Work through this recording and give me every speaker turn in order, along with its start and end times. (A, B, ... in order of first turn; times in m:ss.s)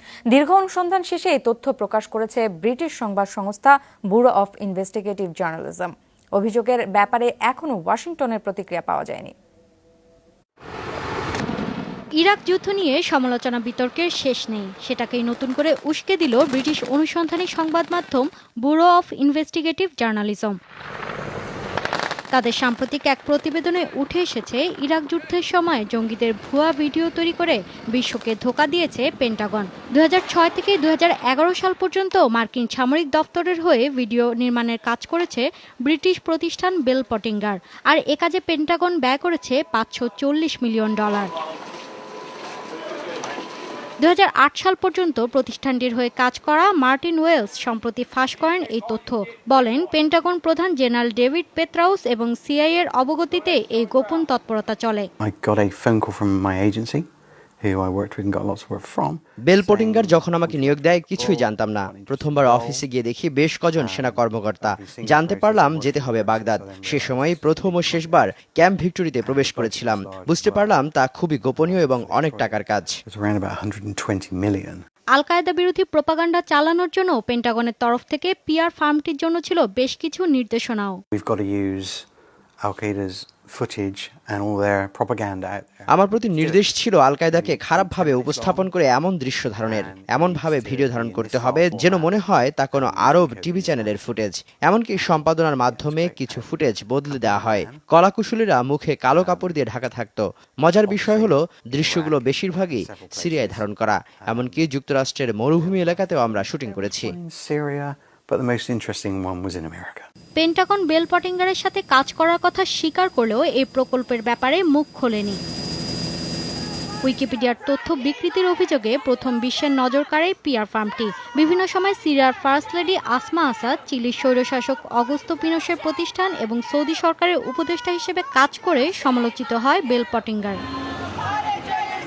0:00.3-0:09.3 A
0:12.2-0:20.6 B
0:22.3-0:41.3 B
0:44.0-0:55.1 B
0:55.2-0:57.0 C
0:57.6-1:02.8 C
0:59.5-1:12.9 D
1:03.8-1:08.3 C
1:09.2-1:10.8 C
1:11.5-1:14.8 C
1:15.1-1:21.0 B
1:21.1-1:22.1 C
1:22.6-1:26.7 C
1:25.9-1:47.1 D
1:27.3-1:28.7 C
1:29.6-1:34.0 C
1:35.1-1:37.9 C
1:39.1-1:39.6 C
1:40.9-1:44.7 C
1:45.5-1:50.1 C
1:50.4-1:55.4 B
1:57.0-2:10.6 B